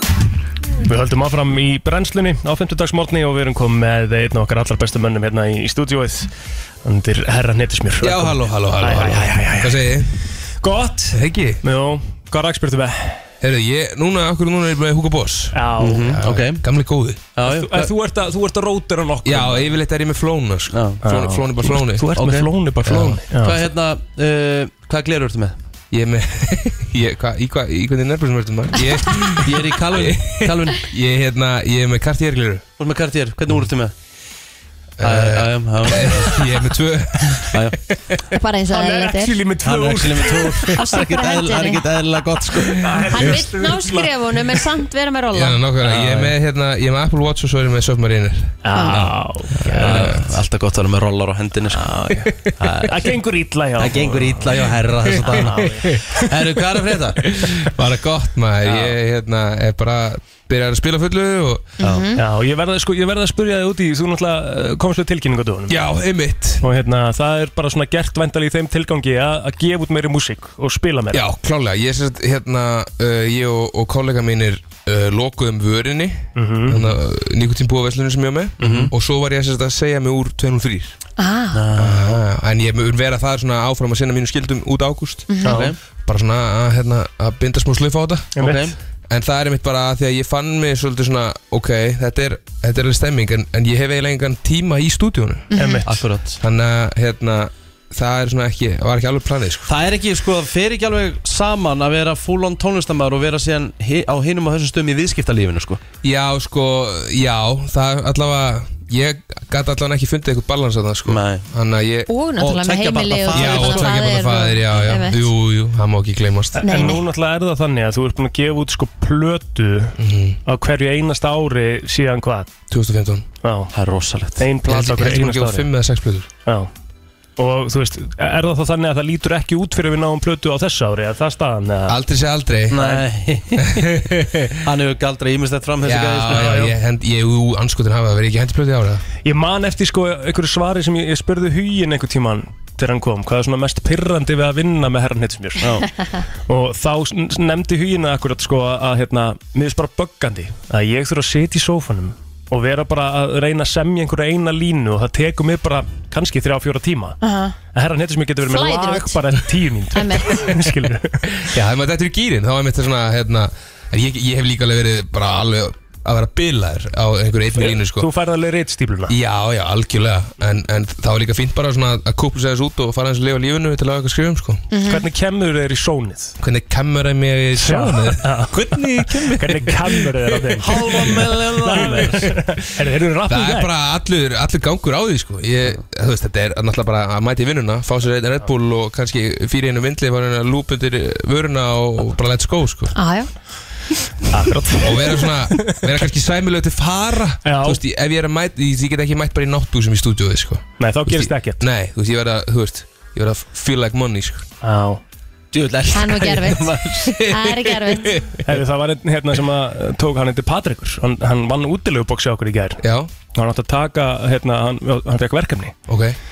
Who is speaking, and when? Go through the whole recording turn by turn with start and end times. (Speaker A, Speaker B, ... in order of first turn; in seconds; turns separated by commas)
Speaker A: 0.8-6.3, Speaker A: 6.8-10.1, Speaker B: 8.0-10.1, Speaker A: 10.6-13.3, Speaker B: 11.1-11.6, Speaker B: 13.4-17.3, Speaker A: 15.5-16.2, Speaker C: 15.8-16.6, Speaker C: 17.4-17.9, Speaker A: 17.4-19.7, Speaker B: 19.2-22.1, Speaker C: 20.7-21.0, Speaker A: 21.0-23.6, Speaker C: 22.1-22.5, Speaker B: 22.8-23.2, Speaker C: 23.4-25.6, Speaker B: 25.9-32.6, Speaker C: 29.4-30.8, Speaker C: 32.8-33.9, Speaker B: 35.0-37.6, Speaker C: 35.0-36.5, Speaker C: 37.5-37.8, Speaker D: 38.3-39.4, Speaker A: 38.7-40.8, Speaker C: 39.6-43.3, Speaker D: 40.8-41.9, Speaker A: 42.8-44.6, Speaker D: 43.1-45.6, Speaker B: 45.3-48.6, Speaker A: 45.9-46.3, Speaker A: 48.6-50.3, Speaker D: 48.8-49.1, Speaker B: 49.5-50.1, Speaker C: 49.7-53.1, Speaker A: 51.7-56.3, Speaker C: 53.8-57.2, Speaker B: 57.5-61.7, Speaker C: 58.6-59.0, Speaker D: 61.8-62.2, Speaker C: 61.8-62.1, Speaker A: 62.2-65.8, Speaker B: 65.7-66.6, Speaker A: 66.6-71.3, Speaker B: 71.1-81.0, Speaker A: 76.4-77.0, Speaker C: 78.6-78.9, Speaker D: 81.2-81.6, Speaker C: 81.5-82.2, Speaker B: 81.8-85.3, Speaker D: 85.3-85.6, Speaker A: 85.4-85.7, Speaker C: 85.5-85.8, Speaker B: 86.0-88.3, Speaker A: 88.4-88.7, Speaker C: 88.4-88.8, Speaker B: 89.1-95.5, Speaker D: 95.5-95.8, Speaker A: 95.5-96.0, Speaker C: 95.9-96.4, Speaker B: 96.4-99.7, Speaker C: 99.7-105.8, Speaker B: 106.0-112.1, Speaker C: 111.1-111.5, Speaker D: 112.1-115.3, Speaker C: 112.4-114.2, Speaker B: 113.3-116.7, Speaker A: 116.5-119.9, Speaker D: 116.6-117.0, Speaker B: 120.0-120.4, Speaker A: 120.5-122.5, Speaker B: 122.7-123.3, Speaker A: 123.4-123.7, Speaker C: 123.7-124.5, Speaker A: 124.4-125.7, Speaker B: 124.6-126.3, Speaker A: 127.4-132.0, Speaker B: 131.9-132.8, Speaker C: 132.7-133.8, Speaker A: 132.7-133.0, Speaker B: 133.6-134.6, Speaker C: 134.6-136.6, Speaker B: 135.8-139.0, Speaker A: 136.3-136.8, Speaker A: 139.2-145.9, Speaker C: 145.6-145.9, Speaker A: 146.5-157.2, Speaker D: 157.2-157.6, Speaker A: 157.7-161.5, Speaker D: 158.5-159.2, Speaker D: 159.9-160.5, Speaker B: 161.4-168.1, Speaker A: 167.5-169.1, Speaker B: 169.1-174.6, Speaker D: 174.7-175.0, Speaker A: 174.9-176.3, Speaker B: 176.4-180.6, Speaker A: 177.6-183.7, Speaker C: 180.6-182.3, Speaker B: 183.3-192.9, Speaker D: 192.9-193.3, Speaker A: 194.3-196.0, Speaker B: 194.8-204.5, Speaker A: 197.4-197.8, Speaker A: 200.8-201.6, Speaker A: 204.6-205.0, Speaker C: 205.5-208.0, Speaker D: 205.9-208.1, Speaker A: 208.4-212.8, Speaker B: 212.8-213.1, Speaker A: 213.3-215.8, Speaker B: 215.9-216.2